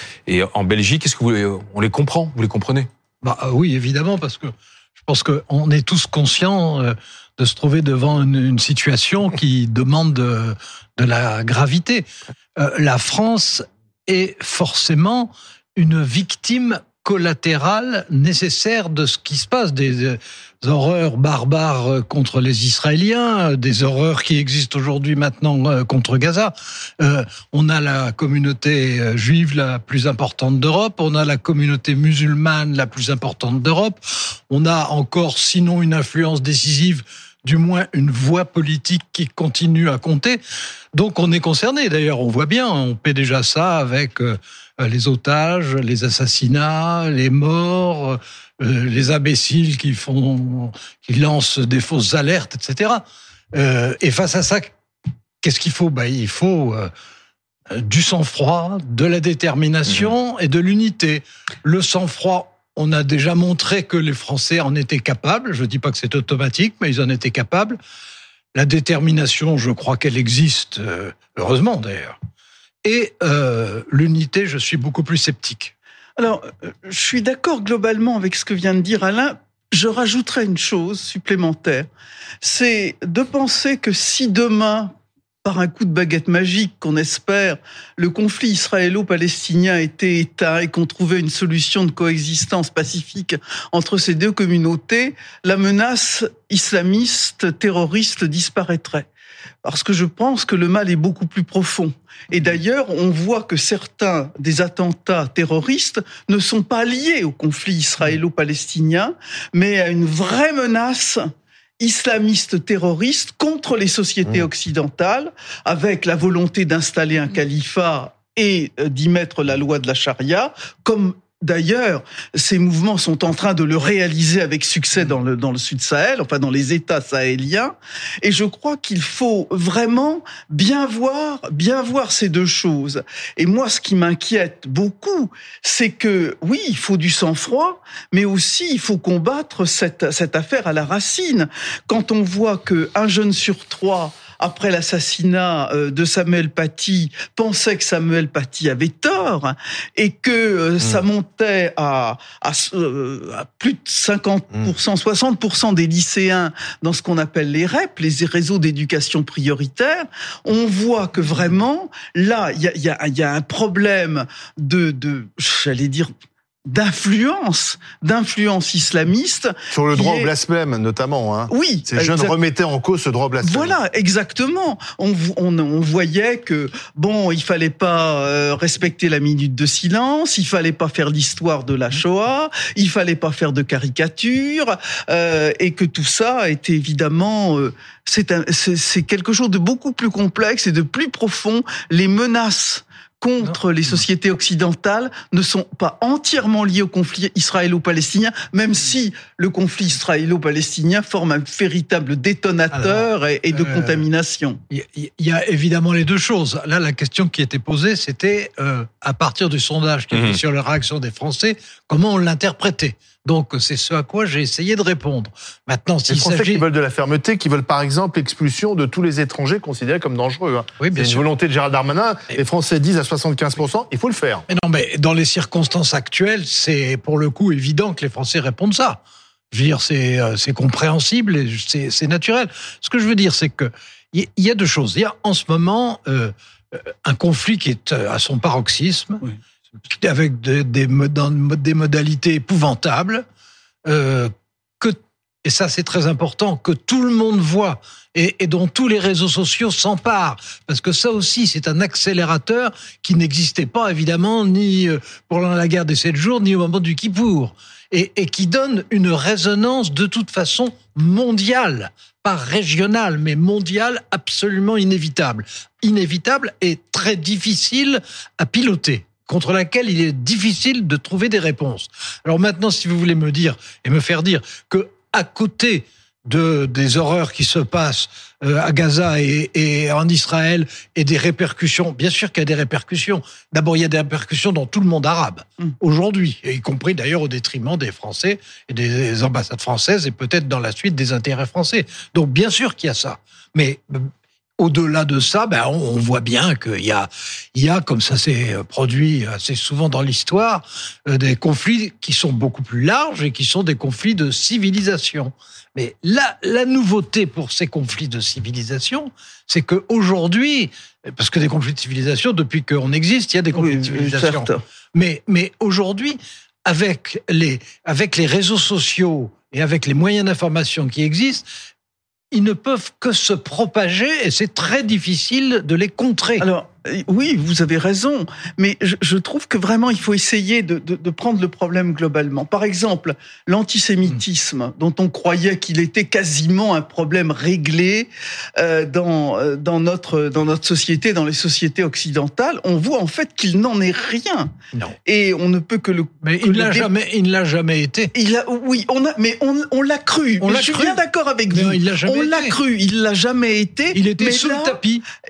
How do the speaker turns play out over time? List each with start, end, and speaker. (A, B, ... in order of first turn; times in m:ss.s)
0:00.3-0:02.9 A
0:03.2-0:40.4 B
0:40.9-0:54.7 B
0:55.4-0:56.9 B
0:57.7-1:07.8 B
0:59.9-1:00.1 A
1:08.5-1:12.2 B
1:12.8-1:15.7 B
1:16.2-1:21.9 C
1:22.4-1:39.1 C
1:39.6-1:51.2 C
1:51.8-2:46.1 C
2:46.7-2:50.3 C
2:49.7-2:53.7 D
2:51.5-2:52.4 C
2:53.4-3:24.6 C
3:22.7-3:24.0 B
3:24.7-3:36.6 B
3:30.1-3:30.4 A
3:36.1-3:44.4 D
3:40.8-3:41.2 B
3:44.5-3:59.3 B
3:59.9-4:03.2 B
4:03.8-5:21.4 B
5:13.5-5:14.6 C
5:22.3-5:26.4 B
5:26.4-5:44.5 C
5:45.0-5:46.9 C
5:46.2-5:48.1 B
5:48.1-5:54.8 C
5:50.4-5:52.6 B
5:53.9-5:55.0 B